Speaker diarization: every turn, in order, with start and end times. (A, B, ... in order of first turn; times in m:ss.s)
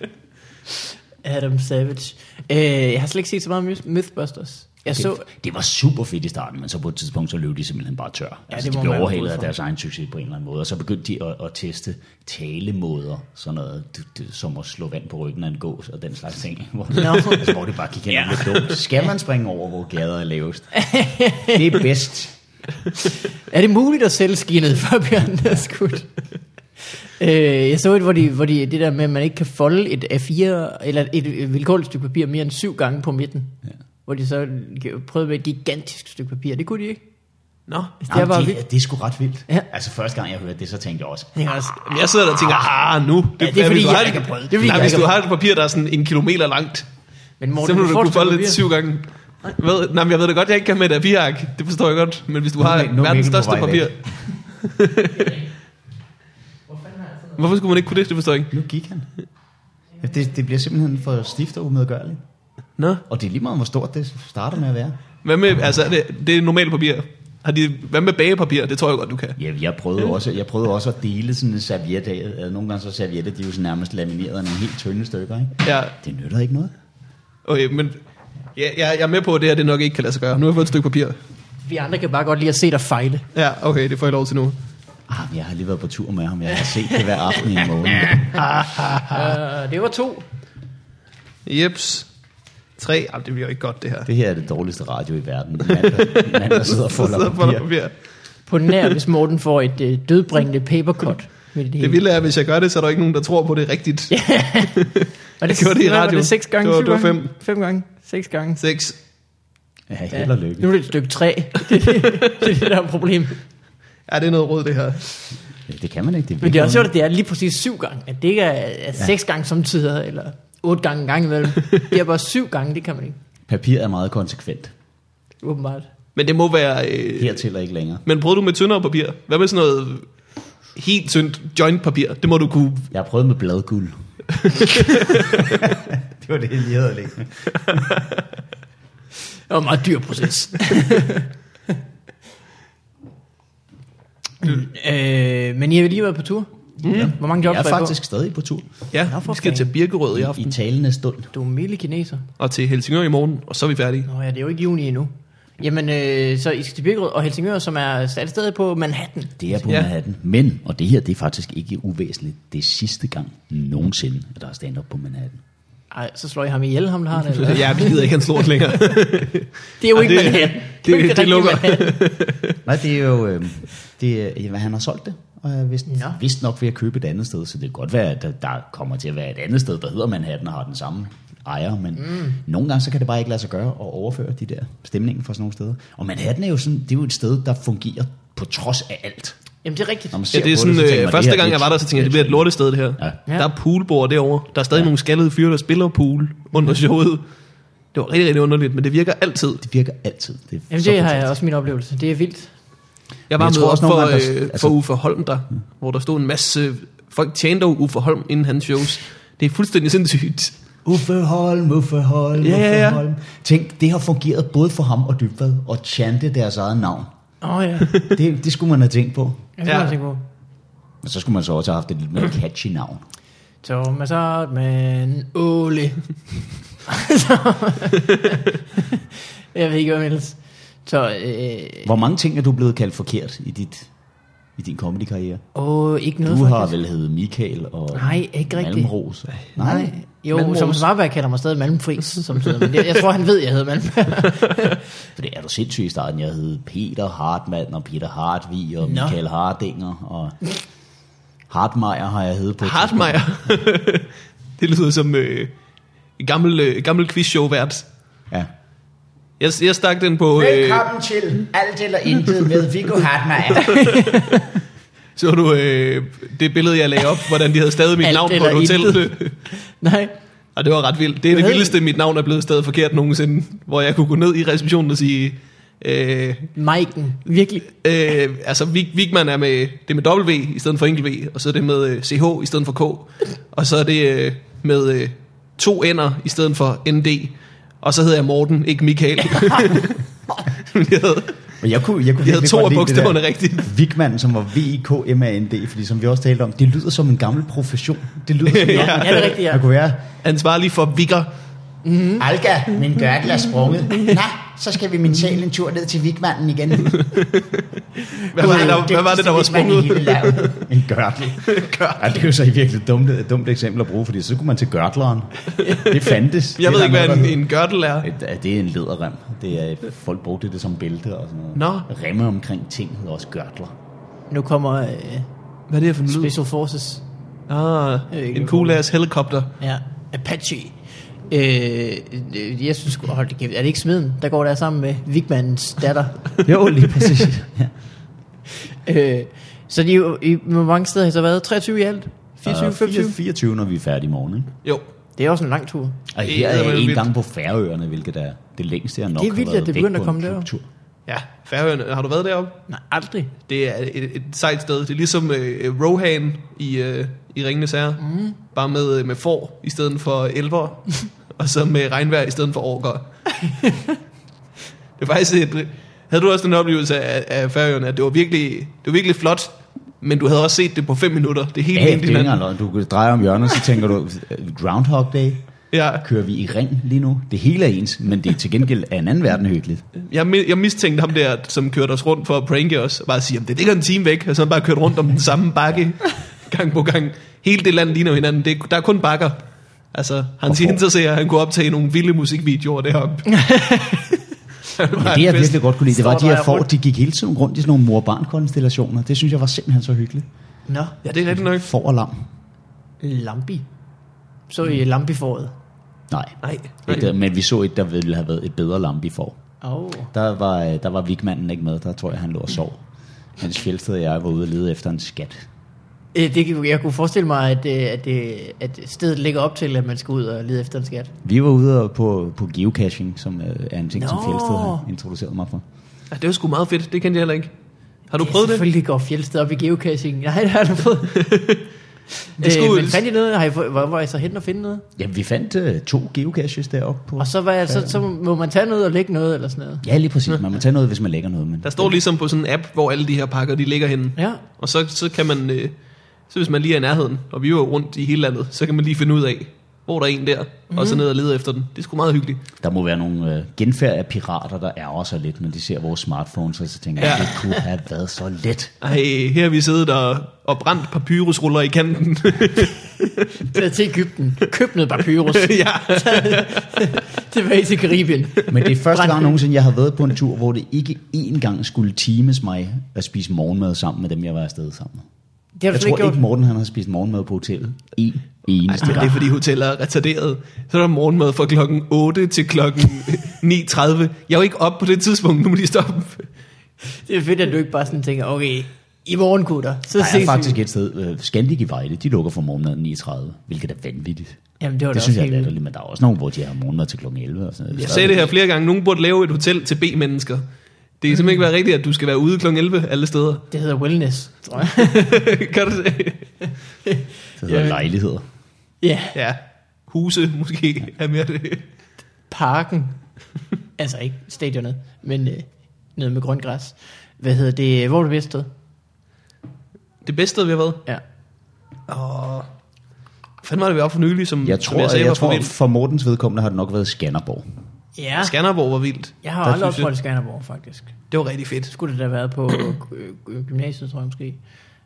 0:01.2-0:05.2 A
0:04.9-0:20.7 B
0:08.5-0:09.5 A
0:17.0-0:18.7 A
0:20.7-0:21.9 A
0:21.4-0:22.4 B
0:23.0-0:26.1 A
0:27.2-0:33.5 A
0:34.1-0:37.0 A
0:37.7-0:38.0 C
0:38.0-0:38.6 A
0:38.1-0:41.3 B
0:41.4-0:42.1 A
0:41.8-0:46.9 C
0:43.4-0:45.1 A
0:47.4-0:48.6 A
0:47.6-0:55.4 C
0:52.6-0:54.0 B
0:57.4-0:58.5 C
0:58.5-0:59.1 B
1:00.0-1:02.2 B
1:02.8-1:03.0 C
1:03.1-1:05.0 B
1:05.2-1:09.4 C
1:09.4-1:16.7 B
1:15.6-1:16.0 C
1:17.4-1:18.0 C
1:18.6-1:21.2 C
1:21.6-1:23.3 A
1:23.3-1:24.6 C
1:25.1-1:28.4 B
1:28.4-1:29.3 C
1:29.0-1:30.2 A
1:31.5-1:32.1 C
1:32.8-1:34.1 C
1:34.1-1:37.7 B
1:35.8-1:37.9 C
1:38.5-1:42.0 A
1:41.8-1:47.3 C
1:44.1-1:44.9 A
1:45.4-1:48.6 A
1:48.6-1:49.0 C
1:49.9-1:50.7 B
1:50.1-1:53.4 A
1:52.0-1:52.5 C
1:54.1-1:55.1 C
1:55.7-1:56.9 B
1:56.4-2:03.2 A
2:03.5-2:04.7 B
2:05.4-2:05.9 A
2:06.1-2:07.4 C
2:07.2-2:08.0 B
2:08.0-2:10.1 C
2:10.8-2:12.9 C
2:12.9-2:14.0 B
2:14.4-2:15.4 C
2:15.1-2:17.9 B
2:17.7-2:18.0 C
2:19.5-2:21.3 A
2:24.4-2:28.0 A
2:26.8-2:28.7 B
2:26.8-2:27.1 C
2:28.9-2:30.5 C
2:29.0-2:29.7 A
2:30.1-2:31.3 B
2:31.3-2:32.3 A
2:32.4-2:34.1 C
2:34.1-2:39.4 A
2:39.4-2:45.4 B
2:45.9-2:48.1 A
2:47.3-2:52.6 C
2:49.8-2:52.0 A
2:52.6-3:09.4 B
2:55.9-2:56.2 A
3:09.6-3:10.2 A
3:10.1-3:13.2 B
3:10.3-3:17.2 C
3:17.9-3:19.6 C
3:19.6-3:21.3 B
3:20.7-3:22.5 A
3:23.3-3:30.6 C
3:23.4-3:24.8 B
3:30.8-3:37.1 B
3:32.4-3:33.0 C
3:37.4-3:37.9 A
3:38.0-3:39.5 B
3:39.6-3:40.2 A
3:39.6-3:39.9 C
3:41.0-3:43.0 B
3:43.6-3:46.0 A
3:46.9-3:51.9 A
3:51.8-3:53.9 B
3:54.6-3:55.4 B
3:55.6-3:56.7 A
3:56.2-3:59.9 B
3:57.9-3:58.9 A
3:59.6-4:04.8 A
4:00.3-4:00.8 C
4:05.1-4:10.4 B
4:08.8-4:09.2 A
4:11.5-4:13.5 B
4:12.6-4:15.5 C
4:16.2-4:17.9 C
4:19.4-4:20.9 C
4:20.4-4:23.8 B
4:23.6-4:24.6 A
4:23.7-4:24.3 C
4:25.2-4:29.4 C
4:28.0-4:30.1 A
4:30.6-4:36.5 C
4:31.3-4:31.8 A
4:36.6-4:37.7 A
4:37.8-4:50.0 C
4:50.6-4:51.4 C
4:51.6-5:00.0 B
4:52.2-4:53.7 C
4:58.5-4:59.4 C
4:58.7-4:59.6 A
5:00.2-5:01.3 C
5:01.8-5:02.2 A
5:02.2-5:07.2 B
5:06.9-5:07.6 C
5:08.2-5:08.8 A
5:08.3-5:10.6 C
5:08.4-5:17.4 B
5:11.4-5:12.0 C
5:15.6-5:18.1 C
5:18.0-5:23.7 B
5:21.6-5:21.9 C
5:24.3-5:25.3 A
5:25.7-5:26.3 C
5:26.1-5:27.0 A
5:27.5-5:29.5 C
5:28.1-5:28.8 A
5:29.6-5:30.8 A
5:31.3-5:36.3 A
5:36.4-5:37.7 B
5:38.7-5:43.1 A
5:42.5-5:44.5 B
5:45.2-5:46.0 A
5:46.1-5:50.6 B
5:46.2-5:47.1 C
5:49.2-5:50.5 A
5:51.1-5:52.6 C
5:52.7-5:53.3 A
5:53.5-6:03.1 C
5:58.0-5:58.4 A
6:05.0-6:12.4 C
6:11.7-6:15.4 B
6:15.7-6:16.0 C
6:16.0-6:19.8 B
6:20.0-6:29.4 C
6:29.9-6:33.4 C
6:30.5-6:30.8 B
6:33.3-6:34.1 A
6:34.7-6:35.6 C
6:34.9-6:40.3 B
6:35.9-6:36.7 A
6:40.7-6:41.0 A
6:41.0-6:41.7 C
6:41.3-6:42.3 B
6:43.0-6:43.6 A
6:44.5-6:45.5 A
6:46.1-6:49.4 B
6:46.4-6:47.1 C
6:49.6-6:50.1 A
6:50.1-6:52.8 B
6:53.4-6:55.5 B
6:56.1-7:01.1 A
7:01.2-7:05.6 B
7:04.0-7:04.8 A
7:06.1-7:07.5 C
7:08.1-7:08.6 C
7:08.2-7:11.4 A
7:11.2-7:11.6 C
7:12.4-7:14.9 A
7:12.4-7:13.0 C
7:15.0-7:18.0 B
7:17.2-7:19.8 A
7:19.8-7:22.0 B
7:21.6-7:25.7 C
7:24.2-7:24.4 A
7:26.3-7:32.4 C
7:30.7-7:31.0 A
7:32.6-7:38.7 B
7:37.0-7:37.3 C
7:38.8-7:43.3 C
7:43.4-7:49.4 A
7:45.3-7:46.8 C
7:48.5-7:55.1 B
7:55.6-7:56.2 A
7:55.7-7:59.3 B
7:58.7-8:06.3 C
8:07.0-8:10.6 A
8:10.0-8:14.4 B
8:14.6-8:15.5 A
8:14.9-8:18.3 B
8:17.7-8:20.4 C
8:21.0-8:23.5 C
8:23.5-8:25.2 A
8:24.9-8:26.3 C
8:26.9-8:27.9 A
8:27.4-8:28.2 B
8:28.8-8:29.2 A
8:29.1-8:31.6 C
8:32.3-8:33.0 A
8:33.8-8:38.5 A
8:40.0-8:40.8 C
8:41.9-8:42.5 C
8:43.4-8:45.5 C
8:44.4-8:47.4 B
8:48.0-8:48.3 A
8:48.2-8:49.9 C
8:49.2-8:50.9 A
8:51.1-8:51.7 C
8:51.7-8:54.4 A